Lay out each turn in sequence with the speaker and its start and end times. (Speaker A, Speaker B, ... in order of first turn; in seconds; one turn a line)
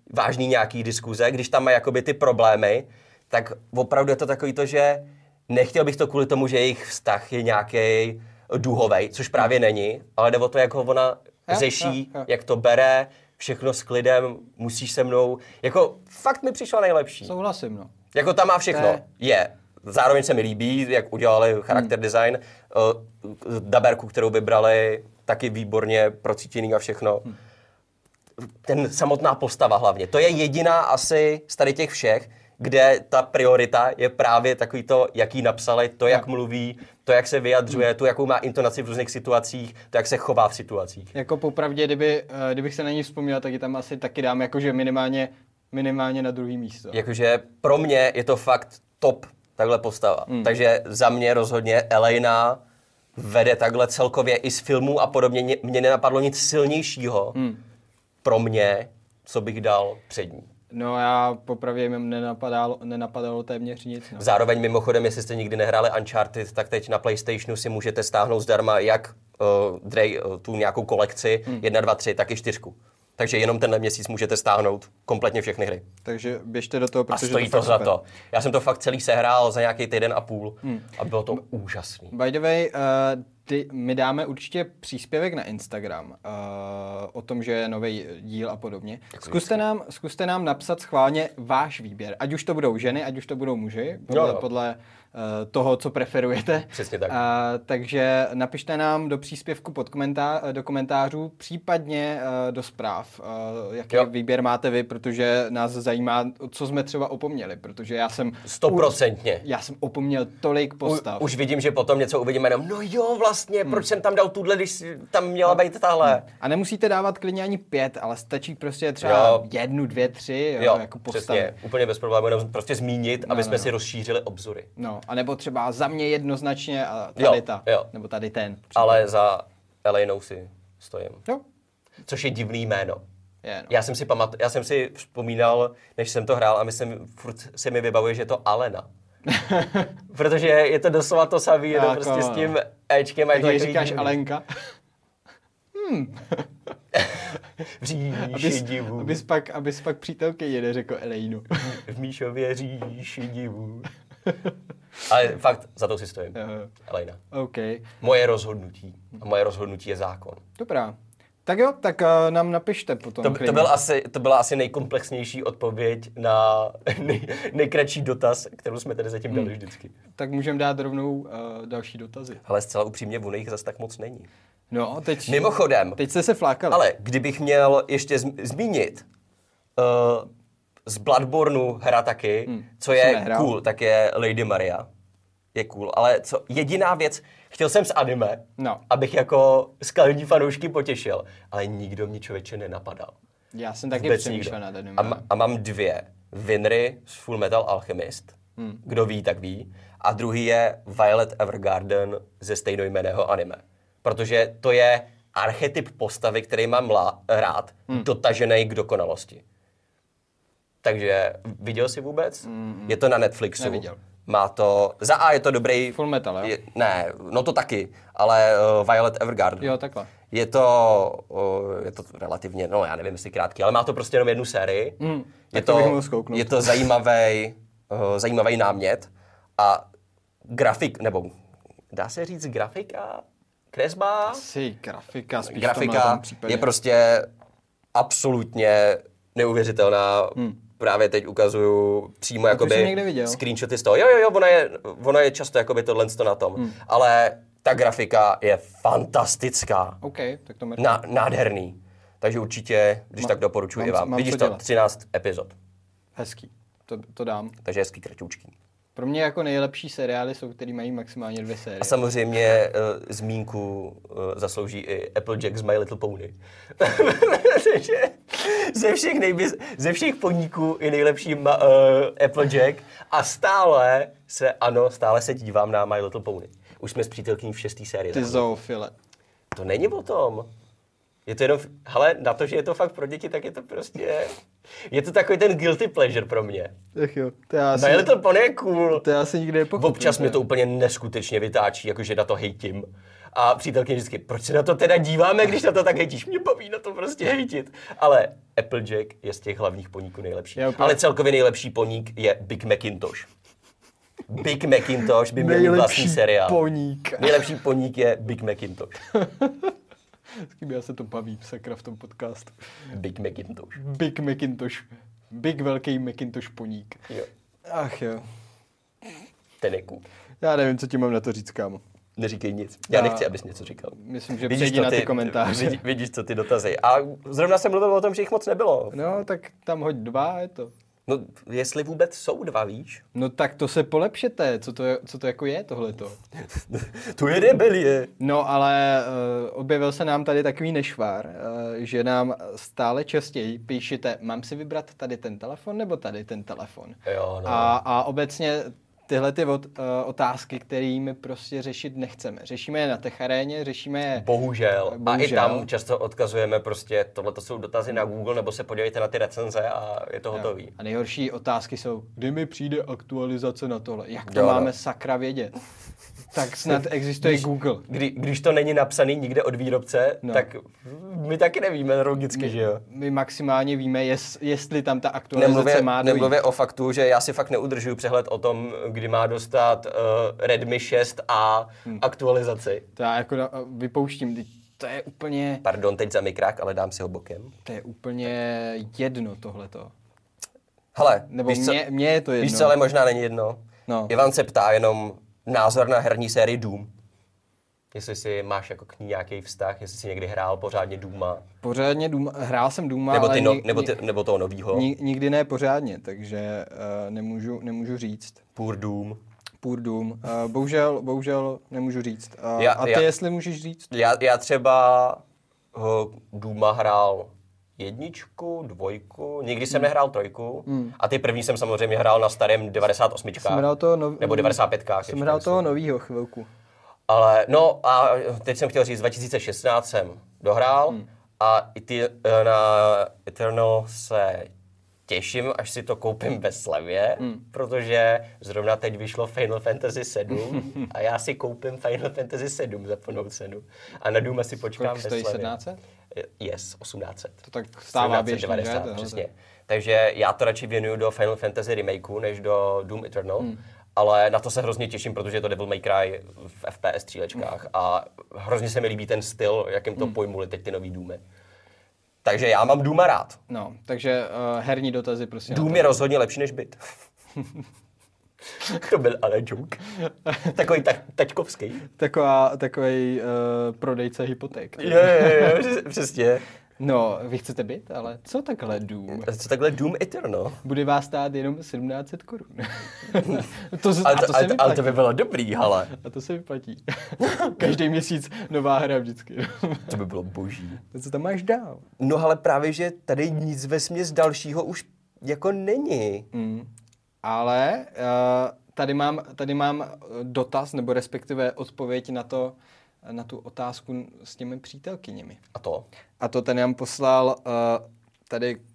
Speaker A: 0.1-17.3
Speaker B: 11.5-12.3
Speaker B: 17.2-17.9
Speaker A: 18.1-27.3
Speaker B: 18.7-19.0
Speaker A: 28.6-41.1
Speaker B: 41.1-47.0
Speaker A: 46.9-52.6
Speaker B: 50.3-50.5
Speaker A: 53.2-57.4
Speaker B: 57.4-57.6
Speaker A: 58.2-60.5
Speaker B: 60.7-64.3
Speaker A: 64.2-75.8
Speaker B: 76.0-77.9
Speaker A: 77.1-82.1
Speaker B: 82.1-111.3
Speaker A: 89.2-89.6
Speaker A: 94.1-94.5
Speaker A: 96.7-97.2
Speaker A: 108.5-109.4
Speaker A: 110.8-116.2
Speaker B: 116.0-121.5
Speaker A: 119.0-119.5
Speaker A: 120.6-124.7
Speaker B: 123.2-123.7
Speaker B: 124.8-129.1
Speaker A: 127.2-127.9
Speaker A: 128.8-131.3
Speaker A: 132.1-133.0
Speaker B: 133.4-133.7
Speaker A: 133.7-138.9
Speaker B: 139.3-139.9
Speaker A: 140.1-144.2
Speaker B: 141.7-142.6
Speaker B: 143.3-144.4
Speaker B: 145.7-146.5
Speaker A: 146.9-149.2
Speaker B: 148.2-151.8
Speaker A: 151.6-153.9
Speaker A: 155.1-157.2
Speaker B: 156.3-156.7
Speaker B: 157.3-157.9
Speaker A: 158.0-160.4
Speaker B: 160.6-160.9
Speaker B: 161.5-163.7
Speaker A: 163.2-169.9
Speaker B: 170.2-172.4
Speaker A: 172.4-174.3
Speaker B: 174.7-176.8
Speaker A: 175.2-176.0
Speaker A: 176.7-179.1
Speaker A: 179.8-180.3
Speaker A: 180.9-184.9
Speaker B: 182.5-183.5
Speaker A: 185.5-193.2
Speaker B: 188.6-188.8
Speaker B: 193.6-195.2
Speaker A: 193.9-209.4
Speaker A: 210.8-219.7
Speaker B: 212.4-213.0
Speaker B: 213.6-214.0
Speaker B: 215.9-216.5
Speaker B: 219.6-220.1
Speaker A: 220.3-225.0
Speaker B: 225.0-226.9
Speaker A: 225.5-229.8
Speaker A: 230.5-231.3
Speaker A: 231.9-234.4
Speaker B: 234.3-236.7
Speaker A: 235.4-237.3
Speaker A: 237.9-250.0
Speaker B: 242.5-243.4
Speaker B: 250.0-251.0
Speaker A: 250.8-255.6
Speaker B: 253.2-254.6
Speaker B: 256.2-257.6
Speaker A: 257.6-258.5
Speaker B: 259.0-262.0
Speaker A: 261.8-278.5
Speaker B: 278.1-278.9
Speaker A: 279.5-280.5
Speaker A: 281.3-284.3
Speaker A: 284.9-286.7
Speaker B: 286.9-288.1
Speaker A: 287.8-289.1
Speaker B: 288.9-290.4
Speaker A: 289.8-303.3
Speaker B: 300.6-301.0
Speaker A: 304.3-306.6
Speaker B: 305.4-307.6
Speaker A: 307.2-309.0
Speaker B: 309.1-309.7
Speaker B: 310.4-312.5
Speaker A: 312.9-313.8
Speaker B: 313.8-317.1
Speaker B: 317.7-318.2
Speaker A: 319.6-320.1
Speaker B: 320.4-321.8
Speaker A: 322.2-329.0
Speaker B: 322.9-323.3
Speaker B: 323.9-325.8
Speaker B: 328.9-330.7
Speaker A: 331.1-333.0
Speaker B: 333.1-336.2
Speaker A: 336.4-338.1
Speaker B: 338.2-354.3
Speaker A: 347.1-347.8
Speaker A: 354.2-360.7
Speaker B: 354.9-355.7
Speaker B: 360.3-365.6
Speaker A: 364.3-364.7
Speaker B: 366.3-367.9
Speaker A: 367.2-372.8
Speaker B: 372.3-376.4
Speaker A: 375.4-382.8
Speaker B: 383.0-385.6
Speaker A: 385.6-387.5
Speaker B: 387.6-389.9
Speaker A: 390.9-391.8
Speaker B: 391.3-392.8
Speaker A: 392.4-396.9
Speaker B: 393.9-394.1
Speaker A: 397.9-401.4
Speaker B: 401.6-404.0
Speaker A: 403.1-404.9
Speaker B: 404.7-408.4
Speaker A: 408.6-409.2
Speaker B: 409.6-413.9
Speaker A: 412.6-413.1
Speaker A: 413.9-415.2
Speaker A: 415.7-423.7
Speaker B: 420.7-420.9
Speaker B: 423.4-426.5
Speaker A: 424.2-425.7
Speaker A: 427.1-434.5
Speaker A: 435.1-445.6
Speaker B: 444.8-445.8
Speaker A: 446.1-447.4
Speaker B: 447.4-449.2
Speaker A: 447.9-461.2
Speaker A: 462.2-463.4
Speaker B: 463.5-466.0
Speaker A: 465.5-466.8
Speaker A: 468.6-469.9
Speaker B: 470.3-470.6
Speaker A: 470.4-471.9
Speaker B: 472.0-475.6
Speaker A: 474.8-476.4
Speaker B: 476.8-479.3
Speaker A: 479.2-480.6
Speaker B: 480.6-485.0
Speaker A: 484.0-485.9
Speaker B: 485.9-490.0
Speaker A: 489.9-490.8
Speaker B: 490.9-491.9
Speaker A: 492.0-496.3
Speaker B: 496.3-496.7
Speaker B: 497.2-505.4
Speaker A: 505.5-505.9
Speaker B: 506.2-508.6